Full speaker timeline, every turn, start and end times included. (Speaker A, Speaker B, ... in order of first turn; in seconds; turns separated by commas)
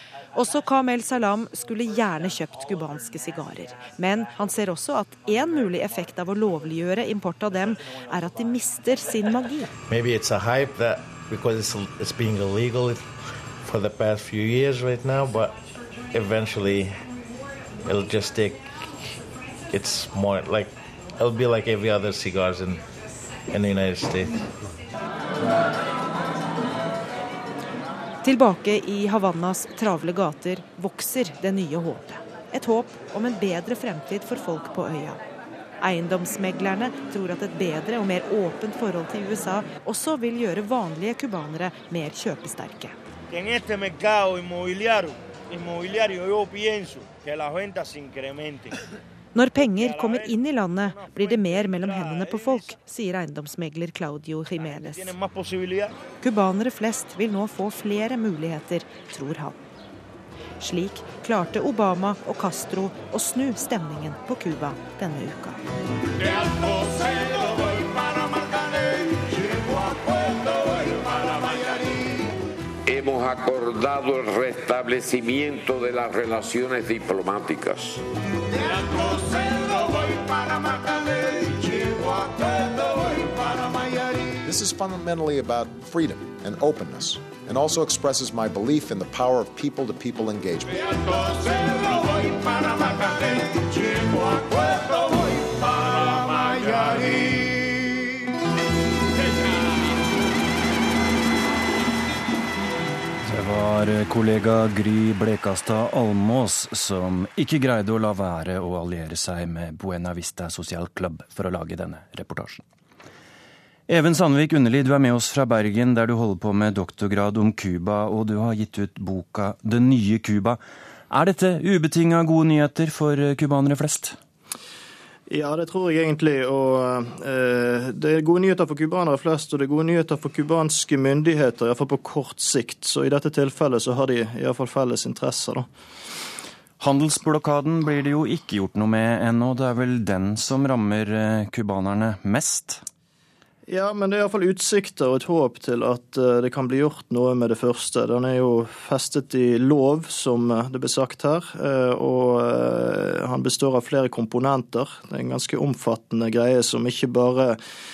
Speaker A: 0.3-9.7, Speaker B: 9.9-13.1, Speaker B: 13.6-15.6, Speaker B: 16.1-17.0, Speaker B: 17.8-18.7, Speaker B: 19.7-22.8, Speaker B: 23.5-24.5, Speaker A: 28.2-35.2, Speaker A: 35.8-43.0, Speaker A: 49.4-55.1, Speaker A: 56.2-59.6, Speaker A: 60.6-65.6, Speaker C: 72.8-78.0, Speaker D: 84.4-91.1, Speaker E: 103.3-112.6, Speaker E: 113.9-124.2, Speaker F: 125.3-135.7, Speaker E: 136.8-142.8, Speaker F: 143.7-157.6